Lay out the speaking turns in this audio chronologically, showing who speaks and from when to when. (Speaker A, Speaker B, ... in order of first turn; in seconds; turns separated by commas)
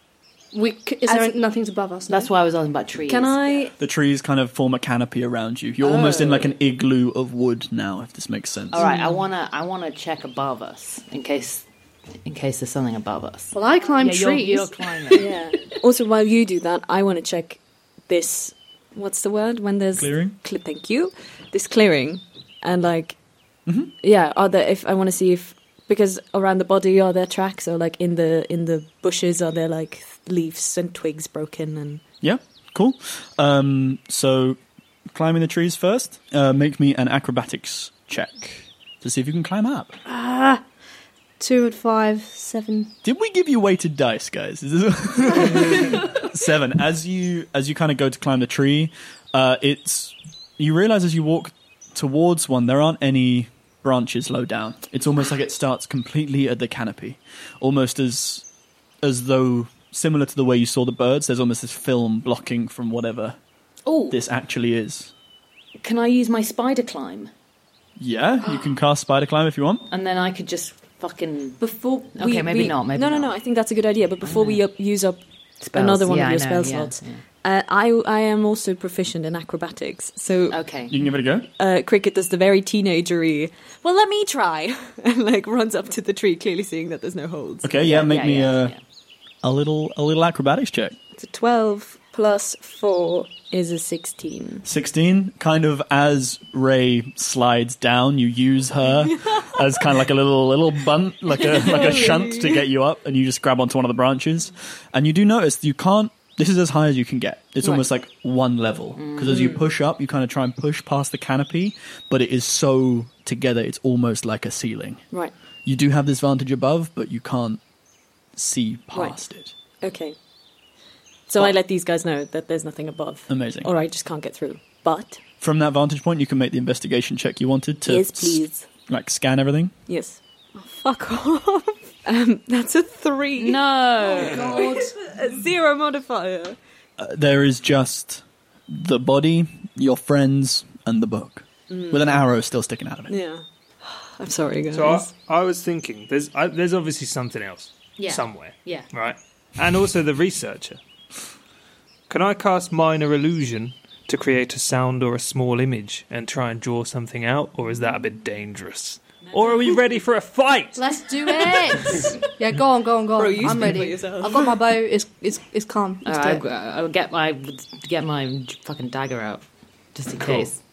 Speaker A: 0.5-2.3, Speaker B: 1.1-1.3, Speaker C: 2.1-3.6, Speaker B: 3.1-3.7, Speaker D: 3.8-8.8, Speaker C: 5.8-6.5, Speaker C: 8.7-11.7, Speaker A: 8.8-9.1, Speaker C: 12.2-15.3, Speaker A: 13.5-15.2, Speaker B: 15.1-23.1, Speaker D: 19.9-20.4, Speaker D: 23.7-23.9, Speaker B: 24.0-32.0, Speaker D: 32.2-34.6, Speaker D: 35.1-39.9, Speaker A: 40.0-40.6, Speaker A: 41.4-42.9, Speaker D: 43.0-58.4, Speaker D: 59.0-63.4, Speaker C: 63.9-64.2, Speaker D: 64.1-65.1, Speaker C: 65.8-67.3, Speaker D: 68.0-69.9, Speaker C: 69.9-71.6, Speaker B: 71.6-80.6, Speaker C: 72.1-73.3, Speaker C: 74.2-74.6, Speaker C: 75.6-77.2, Speaker C: 80.5-80.9, Speaker D: 80.9-81.5, Speaker B: 81.6-87.8, Speaker D: 87.6-88.7, Speaker C: 87.8-88.8, Speaker D: 89.4-91.0, Speaker B: 91.2-94.6, Speaker D: 94.6-115.0, Speaker B: 101.3-102.6, Speaker C: 109.0-109.5, Speaker B: 109.3-109.6, Speaker D: 115.6-117.6, Speaker D: 118.3-119.5, Speaker B: 118.9-119.2, Speaker B: 119.8-120.2, Speaker B: 121.3-125.2, Speaker D: 123.3-123.7, Speaker D: 125.4-129.7, Speaker B: 127.8-128.7, Speaker B: 129.9-136.6, Speaker C: 133.4-134.8, Speaker A: 134.2-134.9, Speaker D: 137.0-143.1, Speaker B: 141.7-142.2, Speaker B: 143.1-145.1, Speaker E: 144.7-150.8, Speaker C: 148.0-148.9, Speaker E: 152.1-160.9, Speaker A: 160.8-166.4, Speaker B: 161.4-162.1, Speaker B: 163.2-164.6, Speaker C: 166.0-170.6, Speaker E: 170.1-170.5